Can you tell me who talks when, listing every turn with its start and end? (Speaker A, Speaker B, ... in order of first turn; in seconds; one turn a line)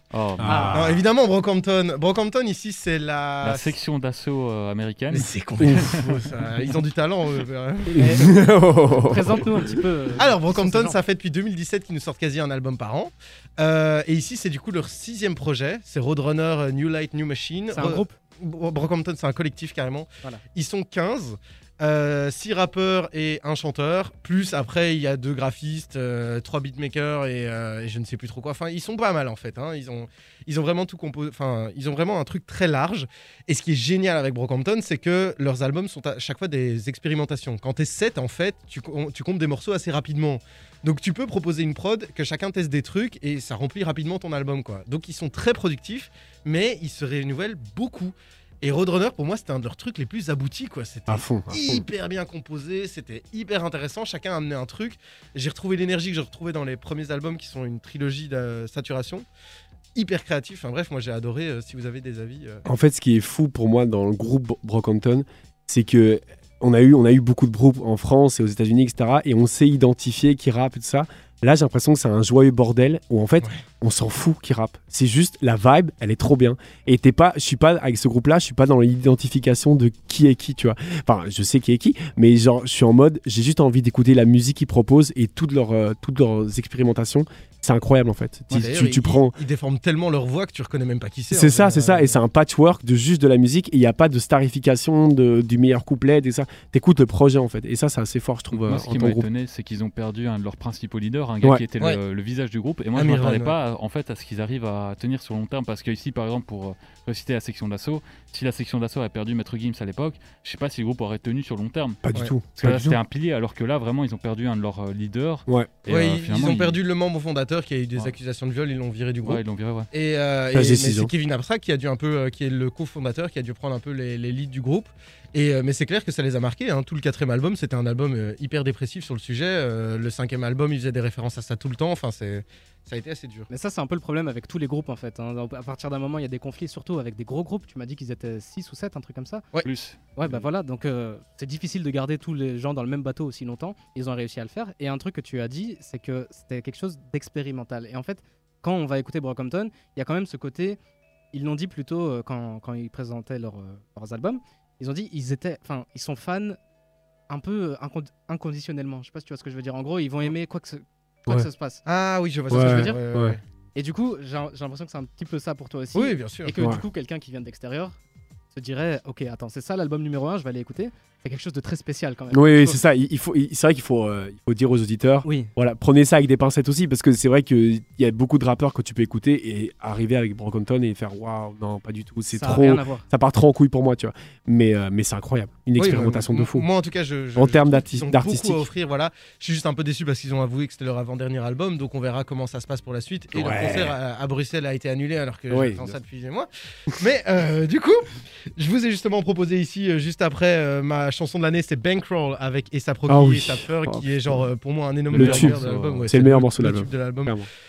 Speaker A: 0.1-0.8
Speaker B: 0.4-1.0
Speaker C: 0.4-0.8
Speaker D: 0.7-3.7
Speaker A: 3.4-6.0
Speaker D: 5.1-8.3
Speaker B: 5.6-5.9
Speaker B: 7.9-9.7
Speaker C: 7.9-11.0
Speaker D: 10.2-59.3
Speaker C: 17.7-18.2
Speaker B: 51.1-51.9
Speaker D: 60.0-62.6
Speaker B: 62.6-89.4
Speaker D: 88.5-92.2
Speaker B: 91.3-99.3
Speaker A: 98.5-112.0
Speaker D: 103.0-103.6
Speaker B: 112.0-113.0
Speaker A: 112.6-116.8
Speaker D: 115.9-119.4
Speaker A: 119.2-119.9
Speaker D: 119.9-133.5
Speaker B: 120.5-121.1
Speaker C: 133.5-139.4
Speaker A: 139.6-140.0
Speaker C: 140.2-150.8
Speaker C: 151.3-156.6
Speaker C: 157.3-161.8
Speaker D: 161.9-163.4
Speaker B: 162.5-163.4
Speaker C: 162.5-163.0
Speaker C: 163.8-168.0
Speaker D: 165.9-166.5
Speaker C: 168.5-172.8
Speaker B: 172.3-186.7
Speaker C: 175.2-175.5
Speaker C: 182.3-183.1
Speaker D: 185.8-196.5
Speaker B: 187.4-188.7
Speaker B: 193.3-194.0
Speaker B: 195.5-196.0
Speaker D: 197.0-207.4
Speaker B: 203.1-204.5
Speaker A: 205.1-206.1
Speaker B: 205.1-207.5